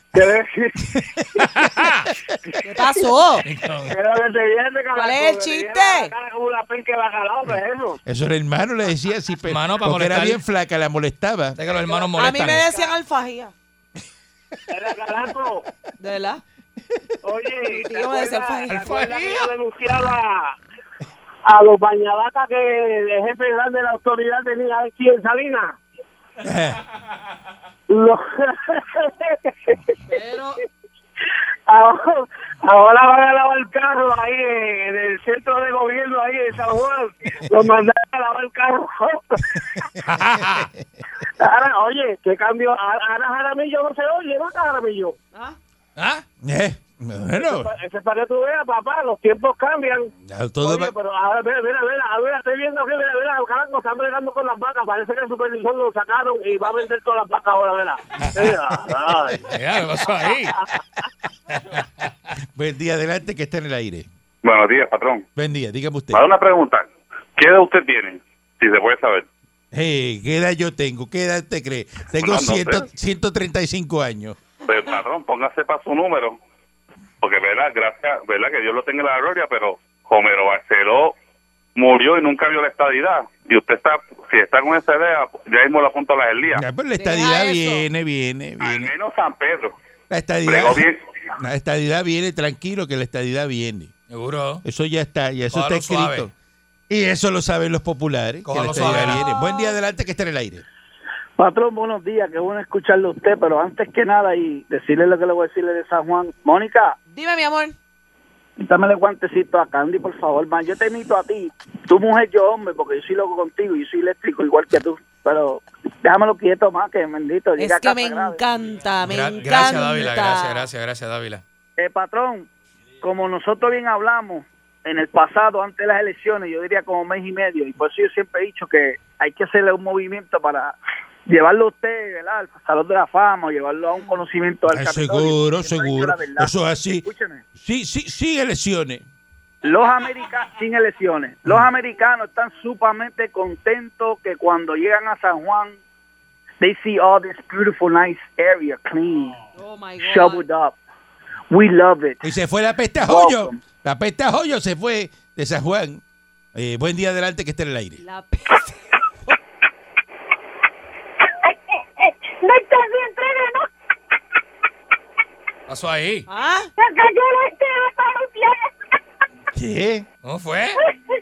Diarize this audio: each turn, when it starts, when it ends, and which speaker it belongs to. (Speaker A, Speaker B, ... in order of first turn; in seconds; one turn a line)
Speaker A: 0.1-0.8
Speaker B: 0.8-1.3
Speaker C: 1.4-2.1
Speaker D: 2.6-3.4
Speaker C: 3.4-4.0
Speaker A: 3.9-8.0
Speaker D: 4.9-6.1
Speaker B: 8.1-11.6
Speaker C: 9.5-10.4
Speaker C: 11.6-12.7
Speaker D: 12.1-13.5
Speaker A: 12.6-12.9
Speaker A: 14.7-15.6
Speaker D: 16.0-16.4
Speaker A: 17.2-20.6
Speaker D: 17.6-19.3
Speaker C: 18.7-19.1
Speaker A: 21.4-25.8
Speaker B: 26.4-26.8
Speaker A: 27.9-30.2
Speaker D: 30.1-30.5
Speaker A: 31.7-39.8
Speaker B: 39.7-40.8
Speaker C: 40.0-40.7
Speaker A: 41.2-45.1
Speaker D: 45.3-45.6
Speaker C: 46.0-46.2
Speaker B: 46.4-47.7
Speaker A: 47.3-50.1
Speaker B: 50.2-50.9
Speaker A: 50.6-59.6
Speaker C: 59.5-60.6
Speaker C: 61.7-62.1
Speaker B: 62.4-64.1
Speaker E: 64.4-65.2
Speaker B: 65.4-66.2
Speaker E: 66.1-66.9
Speaker E: 67.4-69.3
Speaker B: 69.7-74.4
Speaker E: 72.2-72.9
Speaker E: 74.7-76.4
Speaker E: 77.2-81.1
Speaker E: 81.8-86.6
Speaker B: 86.5-88.9
Speaker D: 87.0-87.9
Speaker E: 88.6-89.7
Speaker B: 90.1-90.8
Speaker E: 90.5-91.0
Speaker B: 91.4-93.9
Speaker C: 94.1-94.6
Speaker B: 94.6-96.3
Speaker C: 95.5-96.3
Speaker B: 96.9-100.6
Speaker C: 98.5-99.3
Speaker D: 99.3-99.7
Speaker F: 101.4-107.0
Speaker D: 107.1-107.8
Speaker F: 108.6-118.4
Speaker D: 117.6-120.7
Speaker C: 119.0-121.4
Speaker F: 121.8-122.5
Speaker F: 123.0-130.8
Speaker F: 131.3-137.4
Speaker B: 134.7-139.0
Speaker F: 139.6-145.8
Speaker F: 146.6-149.5
Speaker D: 149.6-150.5
Speaker F: 150.0-150.8
Speaker F: 151.5-152.2
Speaker B: 152.2-156.0
Speaker F: 153.0-153.6
Speaker B: 156.6-158.0
Speaker D: 158.0-158.8
Speaker G: 162.4-163.7
Speaker C: 165.7-166.3
Speaker D: 166.3-166.7
Speaker G: 166.8-168.6
Speaker B: 169.5-170.1
Speaker C: 170.2-170.8